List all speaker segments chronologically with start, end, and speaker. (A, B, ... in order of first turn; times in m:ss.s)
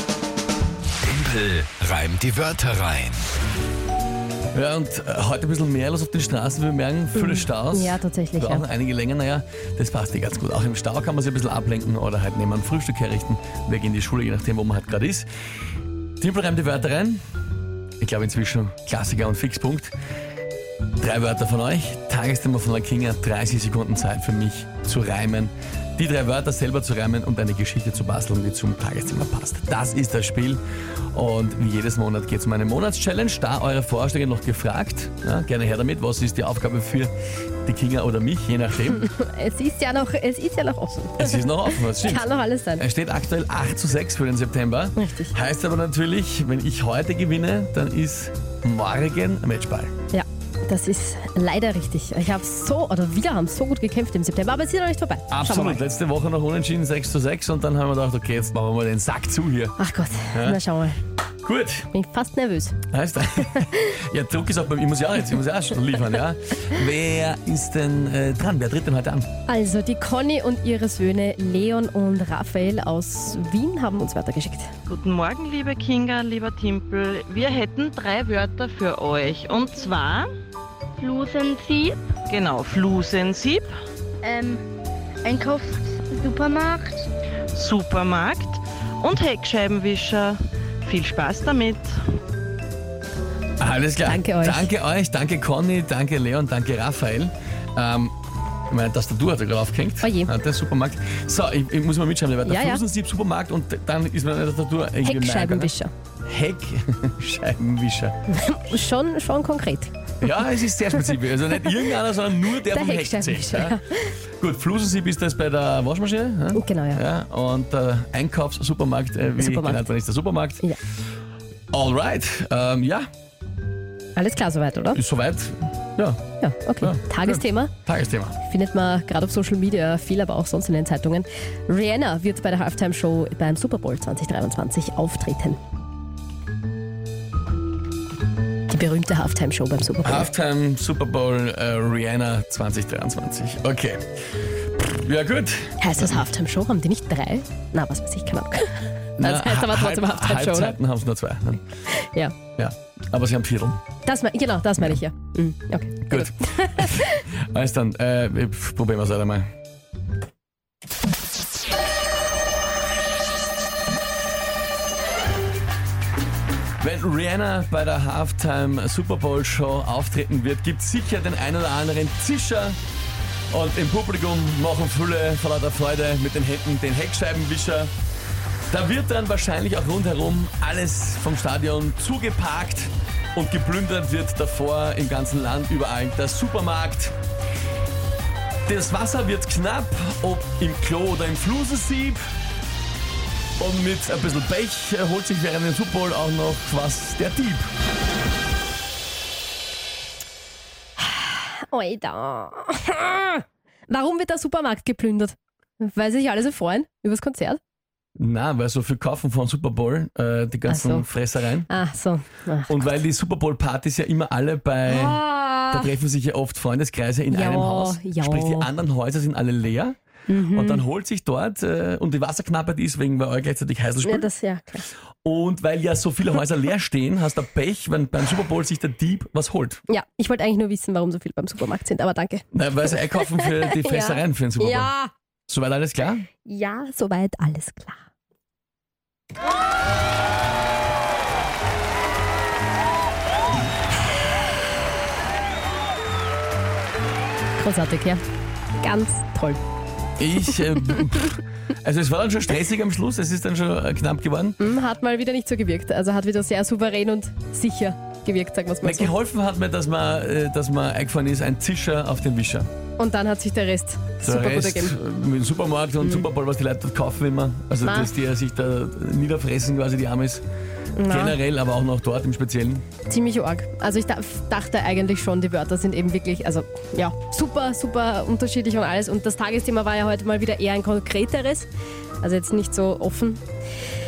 0:01.2-0:03.3 A
0:04.5-0:15.3 B
0:07.2-0:08.7 C
0:16.2-0:17.2 B
0:18.0-0:19.9 B
0:21.0-0:30.6 B
0:31.1-0:37.1 B
0:37.6-0:39.1 B
0:39.0-0:42.8 C
0:41.2-0:49.9 B
0:45.0-0:45.3 C
0:50.1-0:55.8 C
0:55.3-0:59.8 B
0:59.8-1:01.0 C
1:00.3-1:00.6 B
1:01.4-1:01.9 B
1:01.9-1:02.8 C
1:02.9-1:09.3 B
1:09.5-1:14.7 C
1:14.9-1:20.3 D
1:21.0-1:22.0 E
1:22.3-1:23.7 D
1:24.2-1:24.6 E
1:25.2-1:27.1 E
1:27.6-1:31.9 D
1:33.6-1:38.1 B
1:34.0-1:34.7 C
1:38.7-1:45.7 B
1:40.0-1:40.3 C
1:42.4-1:42.8 C
1:45.0-1:45.9 C
1:46.3-1:48.2 B
1:48.3-1:49.9 C
1:50.2-1:53.8 B
1:52.6-1:54.1 C
1:54.4-2:00.6 B
1:56.5-1:57.0 C
1:59.4-1:59.9 C
2:01.7-2:03.1 B
2:04.2-2:05.0 C
2:04.9-2:06.2 B
2:06.4-2:07.7 C
2:06.8-2:08.4 B
2:08.4-2:15.6 C
2:18.7-2:20.3 C
2:20.0-2:24.0 B
2:24.8-2:26.3 B
2:25.8-2:30.8 C
2:29.2-2:31.6 B
2:31.9-2:32.3 C
2:32.6-2:33.8 B
2:34.0-2:37.2 C
2:36.1-2:39.5 B
2:46.8-2:52.8 B
2:53.5-2:57.9 B
2:58.7-3:07.2 B
3:08.7-3:12.2 B
3:13.6-3:17.7 B
3:21.0-3:27.6 C
3:28.2-3:31.7 B
3:30.7-3:31.1 C
3:31.7-3:33.0 C
3:32.7-3:40.0 B
3:34.9-3:35.9 C
3:37.3-3:38.7 C
3:40.3-3:40.8 C
3:40.5-3:44.3 B
3:44.0-3:44.9 C
3:45.2-3:49.8 B
3:49.9-3:55.1 C
3:52.5-3:54.9 B
3:55.5-3:56.3 B
3:56.4-3:58.1 C
4:07.6-4:08.2 C
4:08.8-4:09.6 C
4:10.2-4:14.6 B
4:14.6-4:19.1 C
4:18.8-4:22.7 B
4:23.0-4:25.0 C
4:24.2-4:30.4 B
4:26.0-4:26.3 C
4:27.8-4:28.1 C
4:31.0-4:31.4 C
4:31.1-4:32.8 B
4:33.1-4:41.7 C
4:42.2-4:43.4 C